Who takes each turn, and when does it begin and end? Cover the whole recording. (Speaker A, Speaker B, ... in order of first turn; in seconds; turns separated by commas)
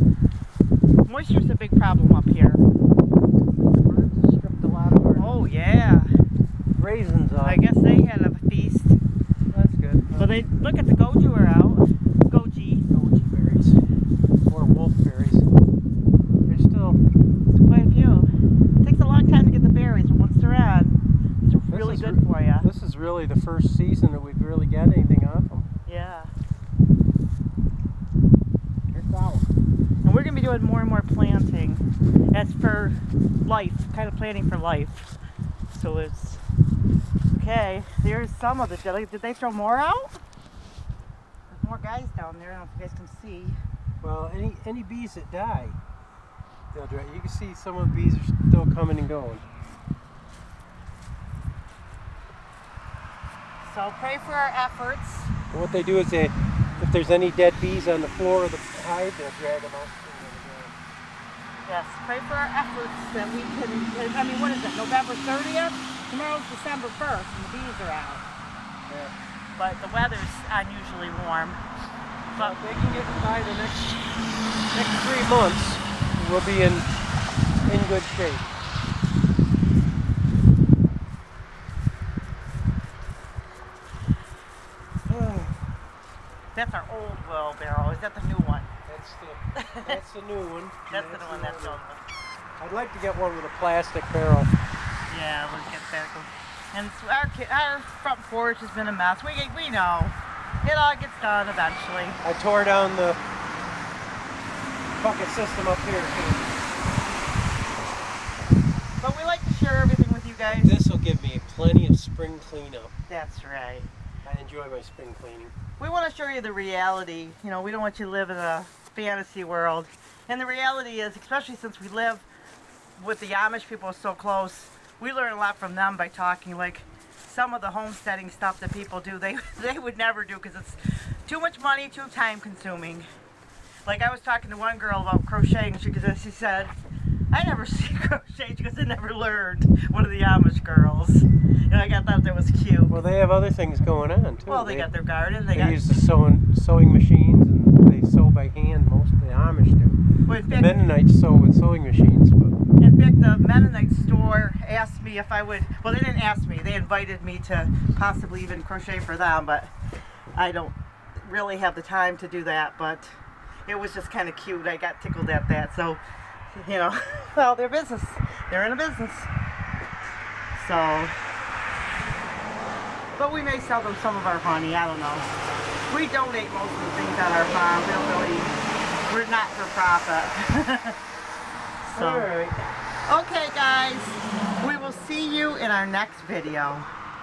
Speaker A: 1.1-2.6, Speaker B: 3.8-5.4, Speaker A: 5.2-6.1, Speaker B: 6.8-7.6, Speaker A: 7.4-9.0, Speaker B: 9.5-10.3, Speaker A: 10.2-12.8, Speaker B: 12.9-13.8, Speaker B: 14.5-15.5, Speaker B: 16.5-17.0, Speaker A: 17.5-18.3, Speaker A: 18.8-22.7, Speaker B: 21.7-25.7, Speaker A: 25.9-26.3, Speaker B: 28.9-29.5, Speaker A: 30.1-35.1, Speaker A: 35.7-36.4, Speaker A: 37.3-40.2, Speaker A: 41.5-43.6, Speaker B: 44.0-45.8, Speaker B: 46.7-49.4, Speaker A: 53.6-55.3, Speaker B: 55.5-60.8, Speaker A: 61.6-68.3, Speaker B: 68.9-69.1, Speaker A: 69.6-71.6, Speaker A: 72.3-72.6, Speaker B: 72.4-74.0, Speaker B: 74.7-76.9, Speaker B: 77.7-78.6, Speaker B: 85.1-85.6, Speaker A: 86.5-88.7, Speaker B: 88.9-91.8, Speaker A: 89.6-90.0, Speaker A: 90.9-92.0, Speaker B: 92.6-94.5, Speaker A: 95.1-102.2, Speaker B: 102.2-103.2, Speaker B: 105.0-106.6, Speaker A: 109.0-110.8, Speaker B: 110.5-112.9, Speaker A: 113.1-113.9, Speaker B: 114.2-115.5, Speaker A: 115.8-122.2, Speaker A: 123.0-133.1, Speaker A: 133.9-136.7, Speaker A: 137.3-142.9, Speaker B: 142.9-144.9, Speaker A: 144.5-146.0, Speaker B: 145.5-152.6, Speaker A: 150.3-150.8, Speaker A: 152.8-159.7, Speaker A: 160.3-163.1, Speaker A: 163.7-169.3, Speaker A: 170.6-171.1, Speaker A: 173.2-175.3, Speaker A: 175.9-178.5, Speaker A: 179.1-181.0, Speaker A: 181.8-182.3, Speaker B: 181.9-182.6, Speaker A: 183.1-186.9